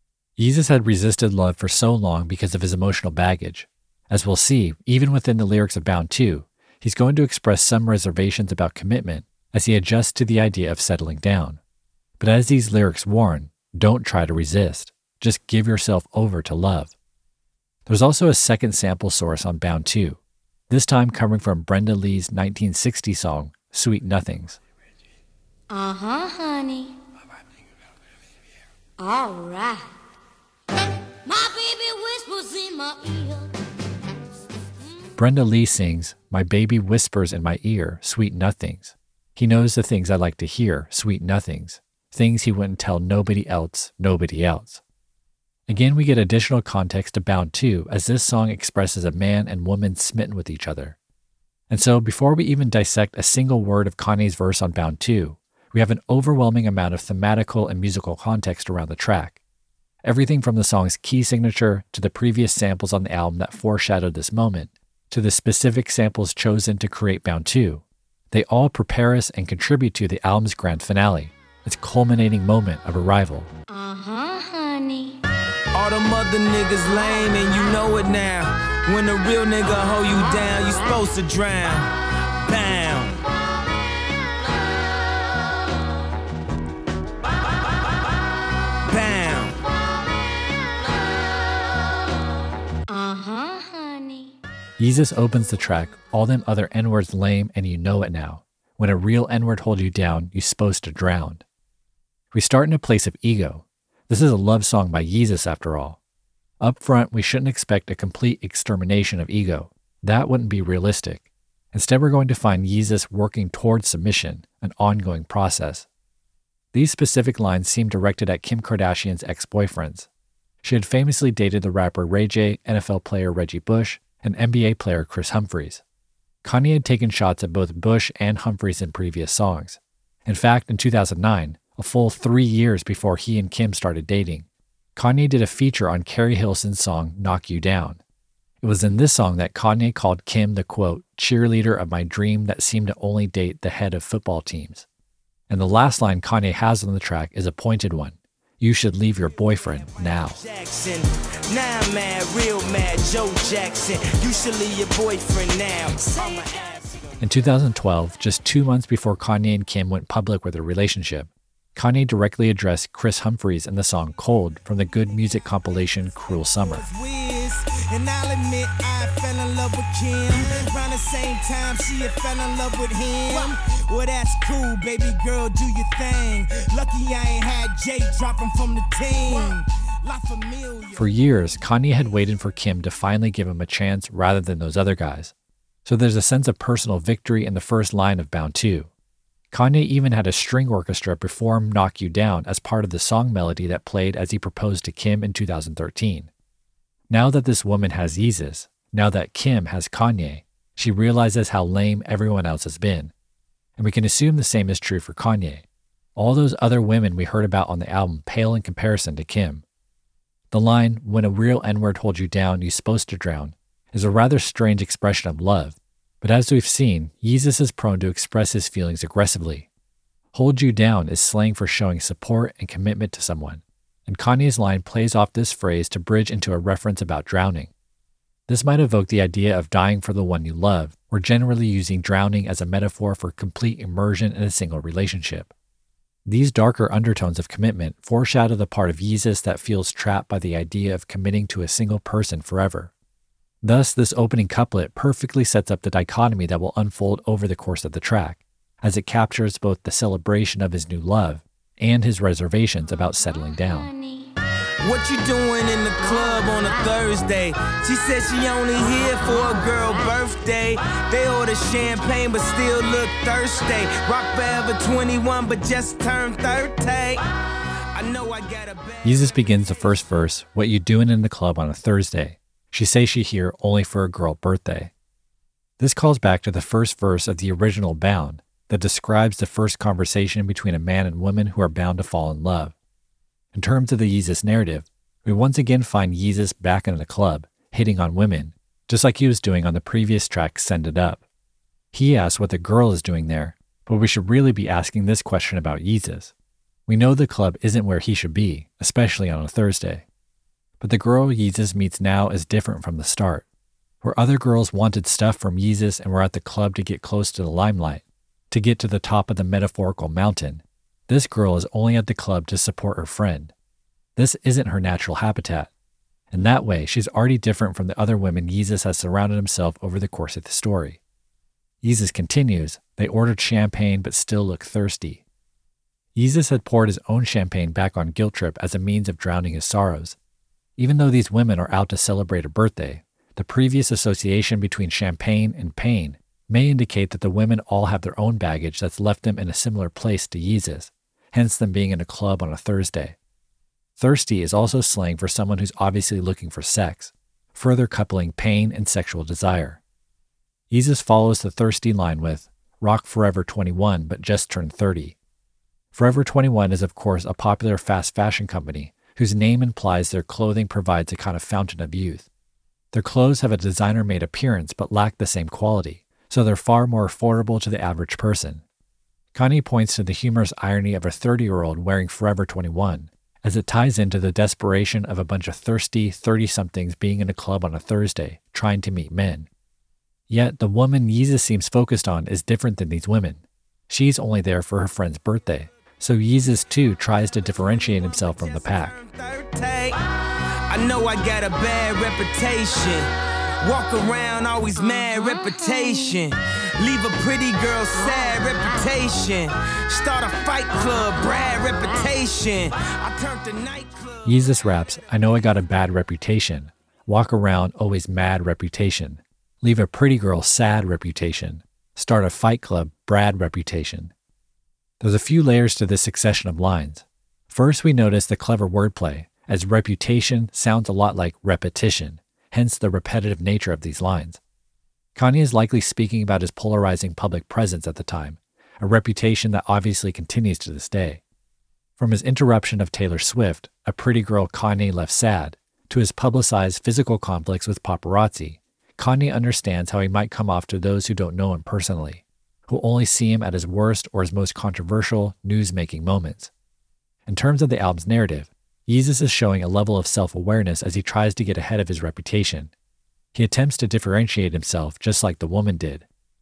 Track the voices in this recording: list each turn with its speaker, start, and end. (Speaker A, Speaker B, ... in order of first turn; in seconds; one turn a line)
Speaker A: 0.4-11.6
Speaker A: 12.2-16.9
Speaker A: 17.9-24.6
Speaker B: 25.7-26.9
Speaker B: 29.0-29.9
Speaker B: 31.2-33.5
Speaker A: 35.1-44.8
Speaker A: 45.7-51.0
Speaker A: 51.7-59.4
Speaker A: 60.0-73.5
Speaker B: 73.7-75.2
Speaker C: 75.7-83.2
Speaker C: 88.8-89.6
Speaker B: 92.9-94.4
Speaker A: 94.8-101.4
Speaker A: 102.3-106.0
Speaker A: 106.6-115.9
Speaker A: 116.7-120.1
Speaker A: 120.6-125.8
Speaker A: 126.4-138.0
Speaker A: 138.6-144.9
Speaker A: 145.5-150.4
Speaker C: 149.5-157.1
Speaker A: 157.2-166.8
Speaker C: 166.7-181.0
Speaker A: 180.9-185.3
Speaker A: 185.8-188.9
Speaker A: 189.5-196.3
Speaker A: 197.1-203.1
Speaker A: 203.8-205.6
Speaker A: 206.2-209.6
Speaker A: 210.5-219.7
Speaker A: 220.3-227.7
Speaker A: 228.5-235.5
Speaker A: 236.2-242.9
Speaker A: 243.6-253.9
Speaker B: 252.9-254.3
Speaker C: 254.8-267.2
Speaker B: 256.0-256.5
Speaker C: 267.9-270.2
Speaker A: 269.0-274.9
Speaker A: 275.8-282.7
Speaker A: 283.5-291.2
Speaker A: 291.9-296.3
Speaker A: 296.9-300.0
Speaker A: 300.8-303.4
Speaker A: 304.0-313.5
Speaker A: 314.1-315.7
Speaker A: 316.3-321.0
Speaker A: 321.8-325.2
Speaker A: 326.1-330.2
Speaker A: 330.8-343.1
Speaker A: 344.0-349.8
Speaker A: 350.7-355.1
Speaker A: 355.9-362.3
Speaker A: 362.9-368.6
Speaker A: 369.3-379.5
Speaker A: 380.3-389.0
Speaker C: 387.6-390.0
Speaker C: 390.7-405.5
Speaker B: 394.8-396.2
Speaker A: 404.2-414.1
Speaker A: 415.0-424.4
Speaker A: 425.1-431.2
Speaker A: 432.0-446.5
Speaker A: 447.3-452.7
Speaker A: 453.3-456.1